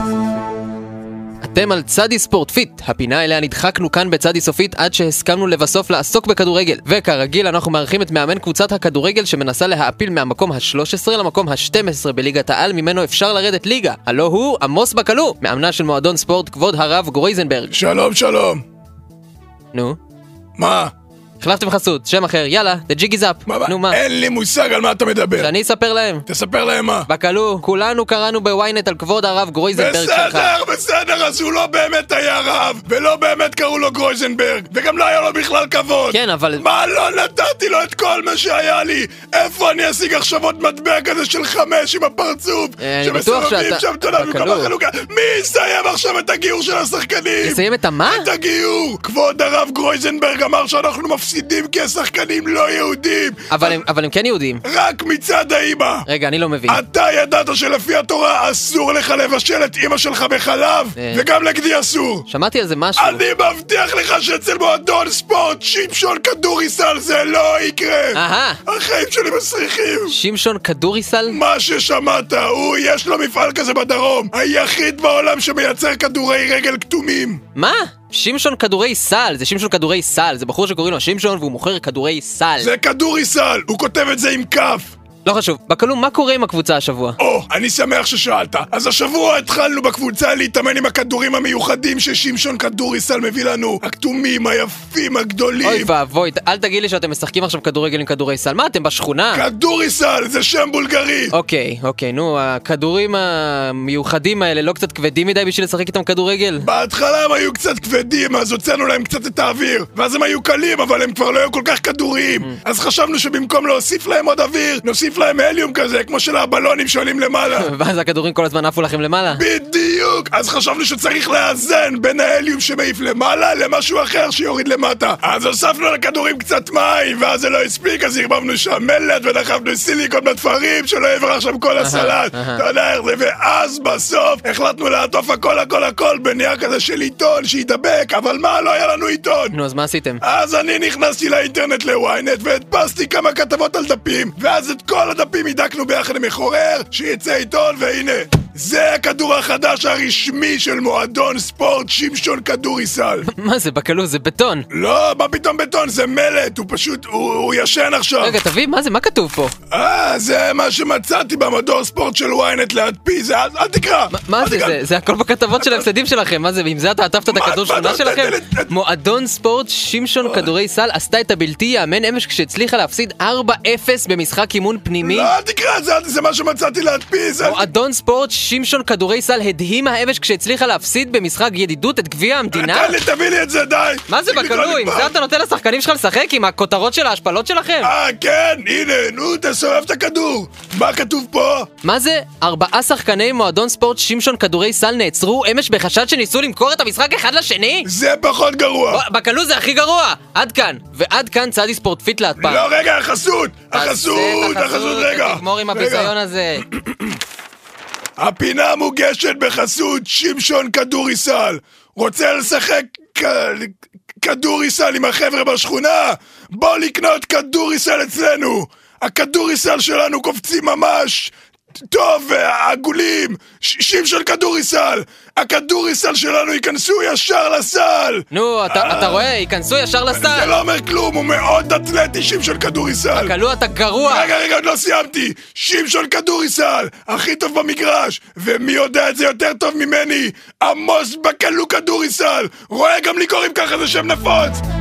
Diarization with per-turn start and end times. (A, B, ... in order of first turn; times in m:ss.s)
0:01.4-0:17.8 A
0:17.7-0:18.6 B
0:19.7-0:20.0 A
0:20.6-0:20.9 B
0:21.4-0:24.0 A
0:23.5-0:25.5 B
0:25.4-0:26.2 A
0:26.3-0:27.1 B
0:27.1-0:30.6 A
0:29.7-0:53.8 B
0:36.1-0:36.7 A
0:42.8-0:44.7 A
0:47.4-0:48.3 A
0:53.5-0:54.6 A
0:54.6-0:56.0 B
0:56.0-0:56.8 A
0:56.7-1:02.2 B
1:01.0-1:01.2 A
1:02.3-1:03.2 A
1:03.0-1:10.1 B
1:08.1-1:08.6 A
1:10.1-1:11.4 A
1:11.3-1:17.4 B
1:17.6-1:22.7 A
1:22.6-1:24.9 B
1:25.2-1:27.2 A
1:27.2-1:35.9 B
1:35.6-1:39.4 A
1:39.3-1:41.3 B
1:41.3-1:46.7 A
1:46.6-1:57.7 B
1:57.5-1:59.4 A
1:59.3-2:19.6 B
2:11.8-2:12.6 A
2:19.5-2:20.2 A
2:20.2-2:33.2 B
2:33.3-2:34.7 A
2:34.7-2:38.4 B
2:38.2-2:39.5 A
2:39.7-2:44.8 B
2:44.1-2:55.3 A
2:45.6-2:45.8 B
2:47.2-2:48.7 B
2:50.2-2:50.5 B
2:55.0-2:57.7 B
2:57.4-3:03.0 A
3:02.5-3:05.1 B
3:04.1-3:07.9 A
3:07.8-3:11.7 B
3:11.8-3:17.9 A
3:17.8-3:19.0 B
3:18.9-3:22.7 A
3:22.4-3:26.1 B
3:23.7-3:26.7 A
3:26.8-3:27.2 B
3:28.2-3:41.3 B
3:41.9-3:49.3 B
3:48.3-3:50.6 A
3:50.1-3:53.3 B
3:53.1-3:54.3 A
3:54.1-4:04.6 B